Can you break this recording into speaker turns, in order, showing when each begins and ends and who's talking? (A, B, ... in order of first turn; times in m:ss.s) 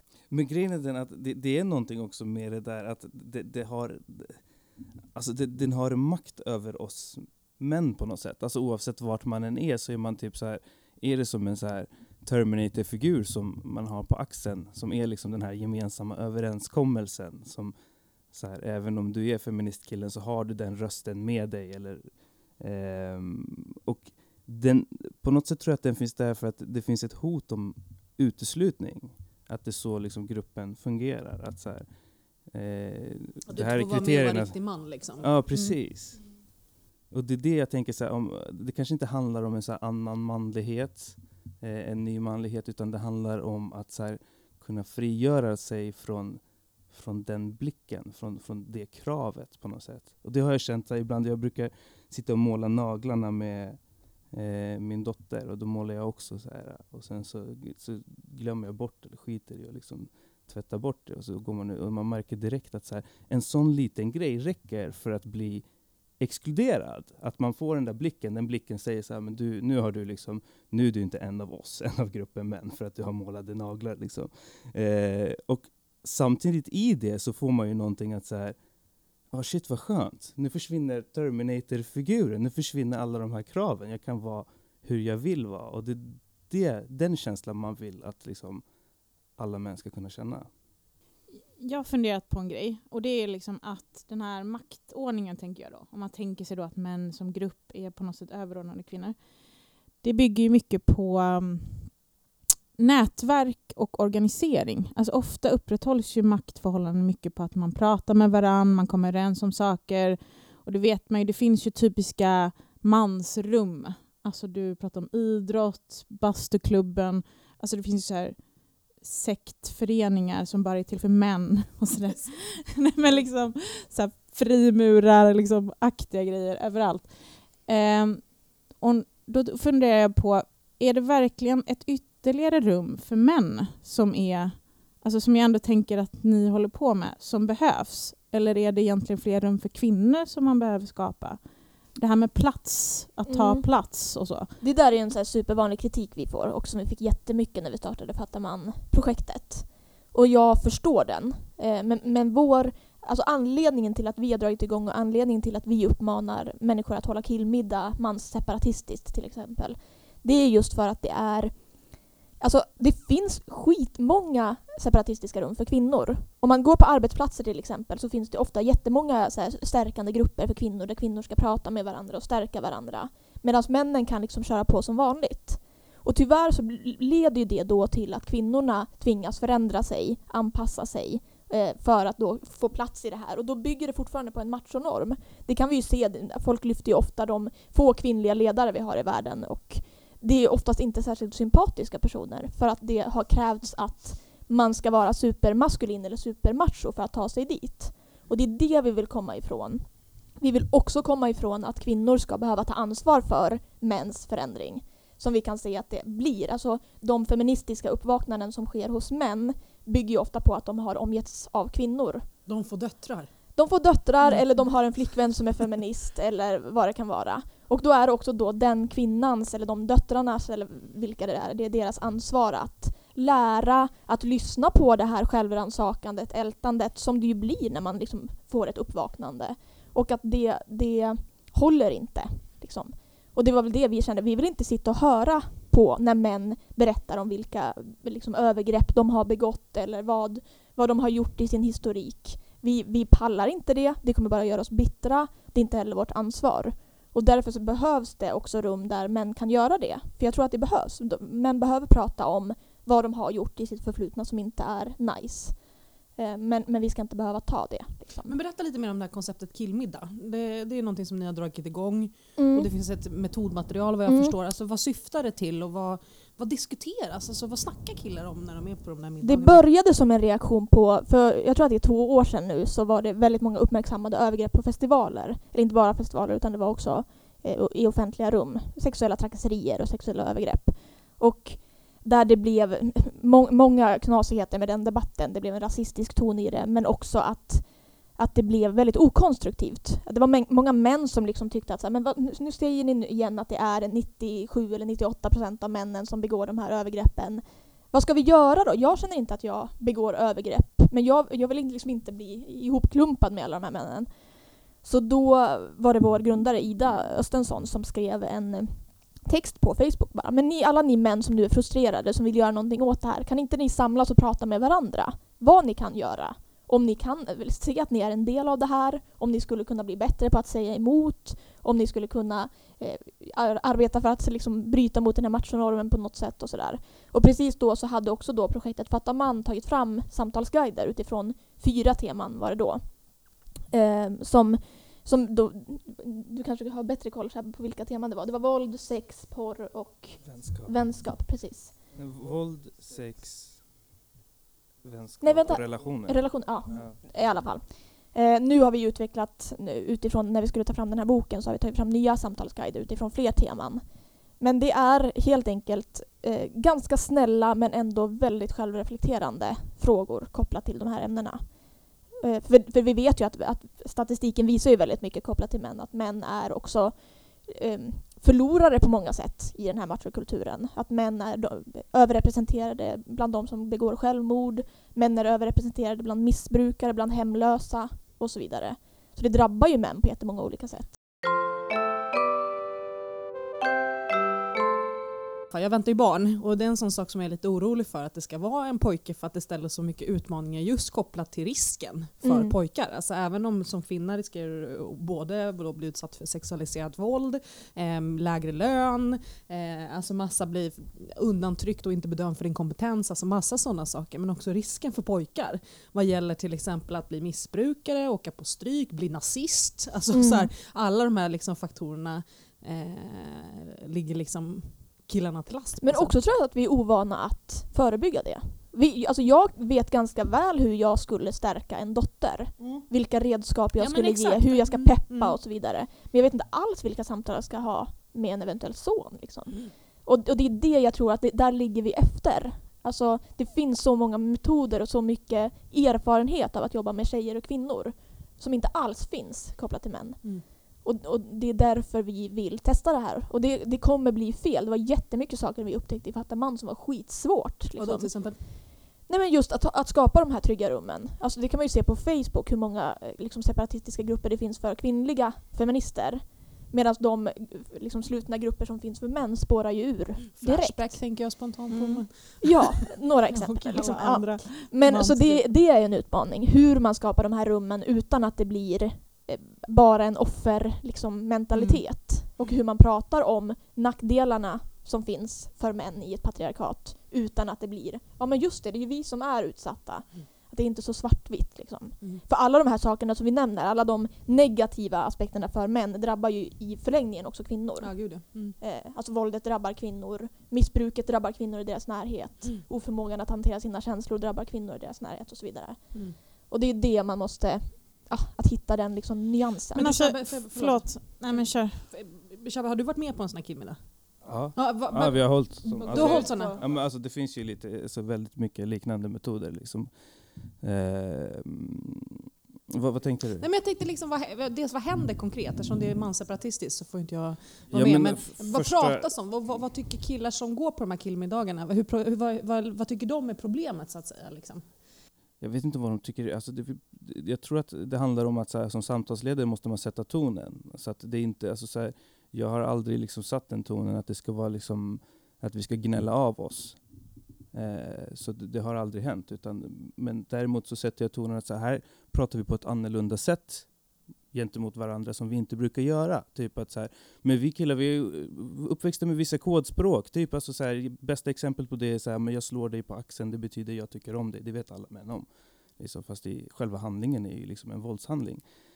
0:00.3-0:04.4 A
0:05.1-0:17.7 A
0:18.3-0:31.9 A
0:32.5-0:34.6 A
0:33.5-0:35.3 B
0:35.2-0:36.3 A
0:37.1-0:53.8 A
0:54.3-1:05.7 A
1:06.2-1:18.6 A
1:19.3-1:28.6 A
1:29.4-1:30.5 A
1:31.6-1:39.3 C
1:40.0-1:42.0 C
1:42.8-2:24.5 C
2:02.0-2:03.3 B
2:23.3-2:23.7 D
2:24.6-2:41.7 D
2:42.4-3:32.3 D
3:32.5-3:33.3 B
3:33.6-4:18.4 D
3:34.2-3:34.6 B
4:18.2-4:29.6 B
4:22.4-4:22.7 D
4:24.1-4:24.4 D
4:29.2-5:04.2 D
5:04.8-5:33.0 D
5:33.7-5:41.8 D
5:40.2-5:40.7 A
5:42.0-5:43.7 A
5:44.8-5:47.0 A
5:45.2-6:20.9 D
6:25.5-6:56.2 B
6:32.2-6:32.5 D
6:50.1-6:50.5 D
6:55.8-8:19.8 D
7:02.6-7:02.9 B
7:03.8-7:05.4 B
7:27.8-7:28.4 B
7:40.4-7:45.4 B
7:43.6-7:45.2 C
7:51.6-7:52.6 B
8:07.8-8:08.6 B
8:15.9-8:16.2 B
8:19.7-8:26.6 B
8:19.8-8:21.8 C
8:24.2-8:29.9 A
8:25.6-8:26.6 D
8:30.5-8:33.5 A
8:33.4-8:44.8 B
8:37.7-8:39.1 A
8:45.4-8:56.8 A
8:57.5-9:03.7 A
9:04.3-9:18.4 A